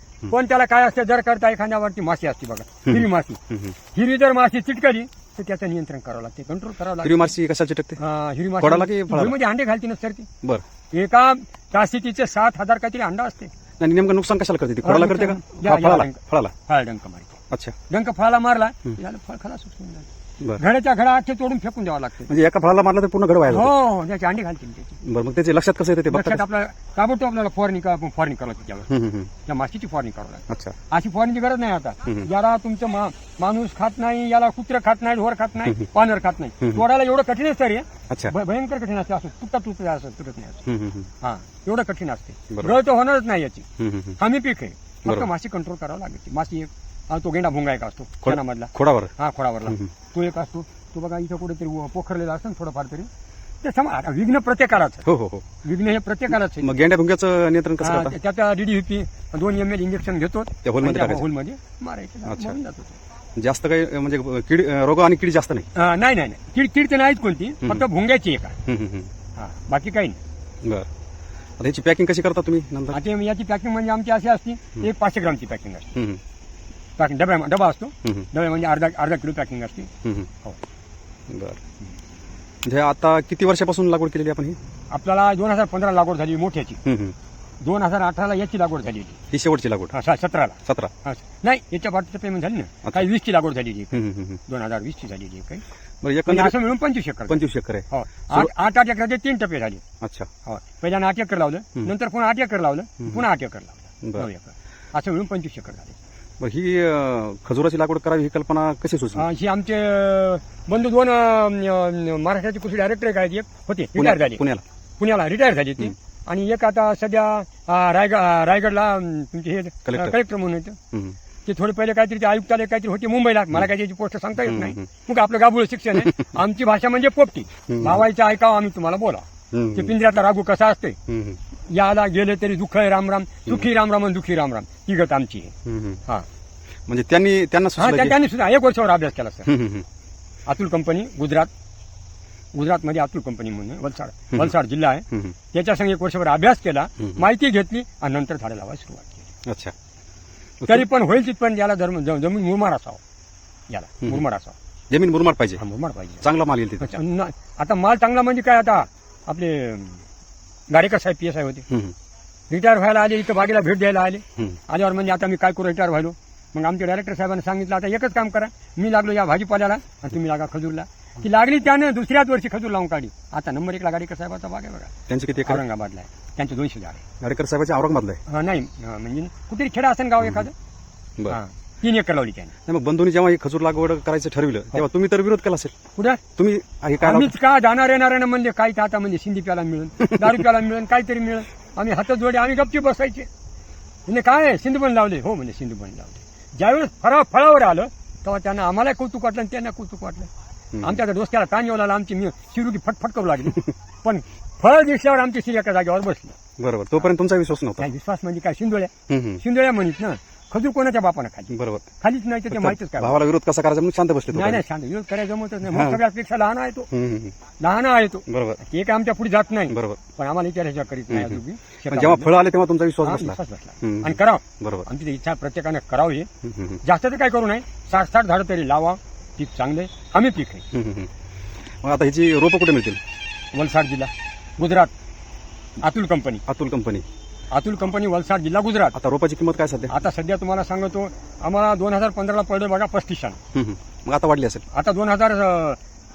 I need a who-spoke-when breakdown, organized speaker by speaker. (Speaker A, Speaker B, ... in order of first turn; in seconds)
Speaker A: 0.3-3.4, 3.9-7.3, 8.0-10.3, 10.9-13.5, 14.8-17.4, 17.9-20.1, 20.6-22.3, 23.5-25.0, 26.1-28.9, 29.5-40.6, 41.2-43.6, 44.2-53.1, 53.6-55.0, 55.6-56.8, 57.8-63.0, 65.8-68.6, 69.4-70.2, 72.9-76.0, 77.0-79.9, 84.9-86.8, 87.6-89.2, 89.9-95.6, 96.3-99.8, 100.5-106.0, 109.1-114.4, 115.0-120.8, 121.5-131.0, 131.7-135.5, 137.8-139.5, 140.5-141.5, 142.5-149.3, 150.6-153.0, 153.7-154.6, 155.6-156.2, 156.8-160.0, 160.7-161.6, 162.5-177.0, 178.3-180.5, 181.3-182.5, 186.0-186.2, 187.0-193.3, 194.1-200.3, 200.8-206.3, 207.8-213.2, 214.3-216.9, 217.6-222.3, 223.0-226.3, 226.8-230.6, 233.5-234.9, 235.8-236.4, 237.5-239.0, 239.9-243.4, 244.7-245.8
Speaker B: 2.9-3.8, 7.0-8.0, 8.6-9.4, 13.8-16.5, 22.3-23.7, 25.0-26.4, 28.9-29.3, 30.5-30.8, 40.6-41.1, 42.5-42.8, 43.8-44.2, 48.2-49.1, 55.0-55.5, 56.6-58.1, 60.6-61.3, 62.2-62.6, 63.4-65.7, 68.7-69.1, 71.6-73.0, 80.0-80.3, 81.3-81.6, 82.6-84.6, 86.8-87.1, 89.3-89.9, 90.7-90.9, 93.9-94.4, 96.0-96.6, 97.3-98.5, 100.0-100.3, 104.0-104.3, 106.4-109.2, 114.0-114.6, 119.9-120.2, 124.4-124.8, 126.0-126.3, 127.7-128.0, 129.5-129.9, 131.1-131.4, 135.6-136.0, 136.9-138.2, 139.5-139.9, 149.5-149.7, 150.6-150.9, 154.9-155.6, 156.2-157.0, 161.7-161.9, 175.1-175.6, 177.2-178.2, 182.7-185.8, 186.4-187.3, 200.7-201.0, 206.6-207.9, 209.1-209.4, 211.5-211.8, 212.5-214.6, 215.6-216.0, 216.9-217.3, 218.3-218.6, 219.7-220.0, 221.1-224.9, 226.4-226.8, 230.7-231.1, 231.8-233.0, 236.5-237.0, 238.9-239.9, 243.5-244.6